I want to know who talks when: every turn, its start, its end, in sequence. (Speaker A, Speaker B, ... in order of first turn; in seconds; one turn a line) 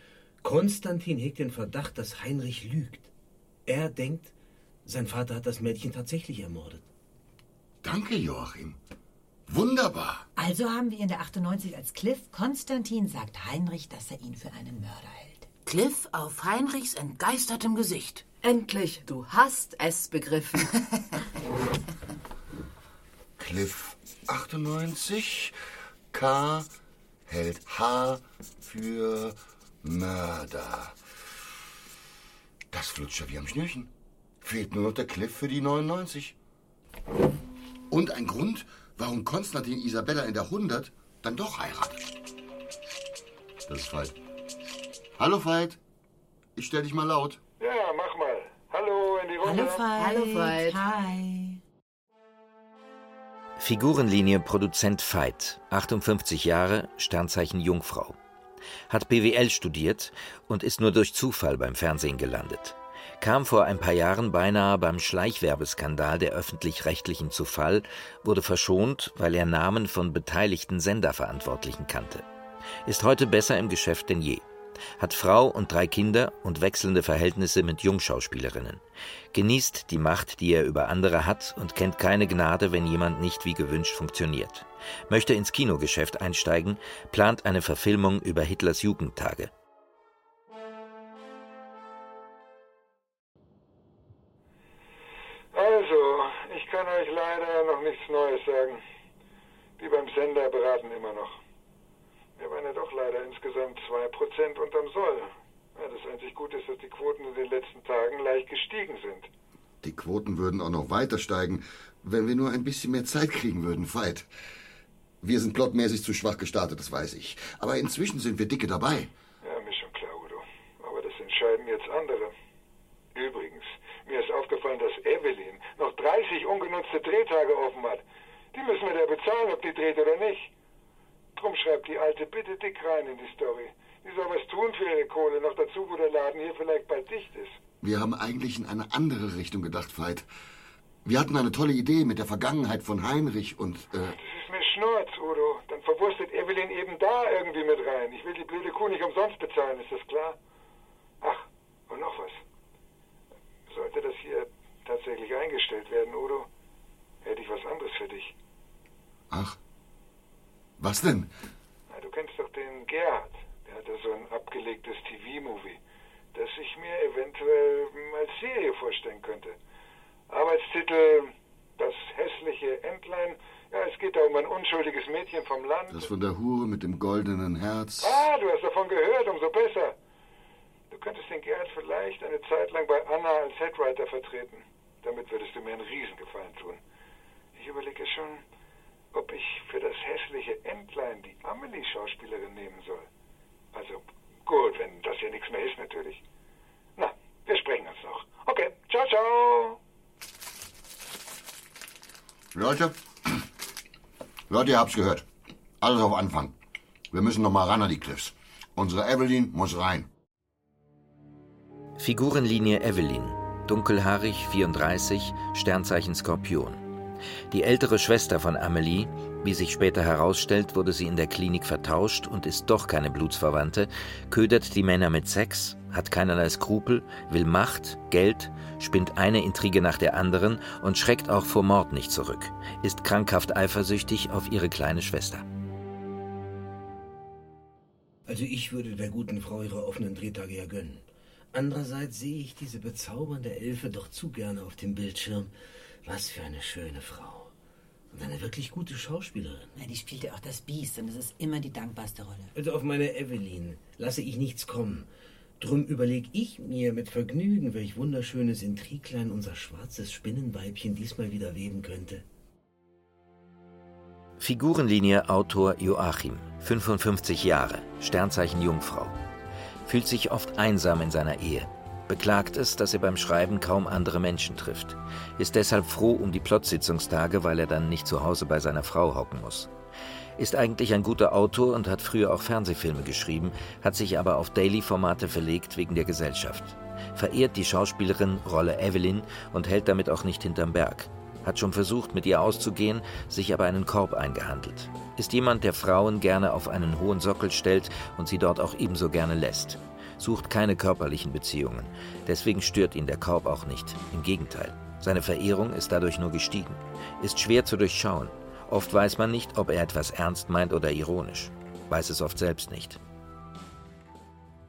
Speaker A: 0.4-3.1
Speaker A: 3.7-4.3
Speaker A: 4.8-6.8
Speaker B: 7.8-8.8
Speaker B: 9.5-10.3
Speaker C: 10.4-15.5
Speaker D: 15.7-18.2
Speaker E: 18.4-20.7
Speaker B: 23.4-25.5
Speaker B: 26.1-26.7
Speaker B: 27.3-31.0
Speaker B: 32.7-36.4
Speaker B: 37.9-42.1
Speaker B: 43.7-44.2
Speaker B: 45.2-45.8
Speaker B: 46.6-47.4
Speaker F: 47.6-49.9
Speaker C: 49.4-51.6
Speaker E: 49.9-50.8
Speaker G: 53.6-58.2
Speaker G: 58.9-72.2
Speaker G: 72.9-74.4
Speaker G: 75.0-78.8
Speaker G: 79.3-89.5
Speaker F: 95.5-98.8
Speaker F: 99.8-101.4
Speaker F: 102.4-109.3
Speaker B: 109.8-114.3
Speaker B: 115.2-119.1
Speaker F: 119.4-122.3
Speaker F: 123.2-128.0
Speaker F: 128.5-130.5
Speaker F: 131.4-137.6
Speaker B: 137.8-140.3
Speaker B: 141.1-144.2
Speaker F: 144.1-150.4
Speaker F: 151.2-152.4
Speaker F: 153.7-156.5
Speaker F: 157.2-158.3
Speaker B: 159.3-159.6
Speaker B: 160.8-161.3
Speaker F: 161.9-165.8
Speaker F: 166.3-169.6
Speaker F: 170.3-176.1
Speaker B: 175.9-178.3
Speaker F: 178.0-179.9
Speaker F: 180.9-186.8
Speaker F: 187.6-188.4
Speaker F: 189.1-193.1
Speaker F: 193.7-196.2
Speaker F: 197.0-199.8
Speaker B: 202.5-203.5
Speaker B: 204.5-205.3
Speaker B: 205.8-206.6
Speaker B: 207.1-210.1
Speaker G: 212.0-216.8
Speaker G: 217.5-235.4
Speaker A: 238.3-245.5
Speaker A: 246.1-247.5
Speaker A: 248.1-249.7
Speaker C: 249.8-252.5
Speaker A: 252.6-255.1
Speaker A: 255.6-262.2
Speaker G: 264.4-269.1
Speaker G: 269.9-279.7
Speaker G: 280.4-313.0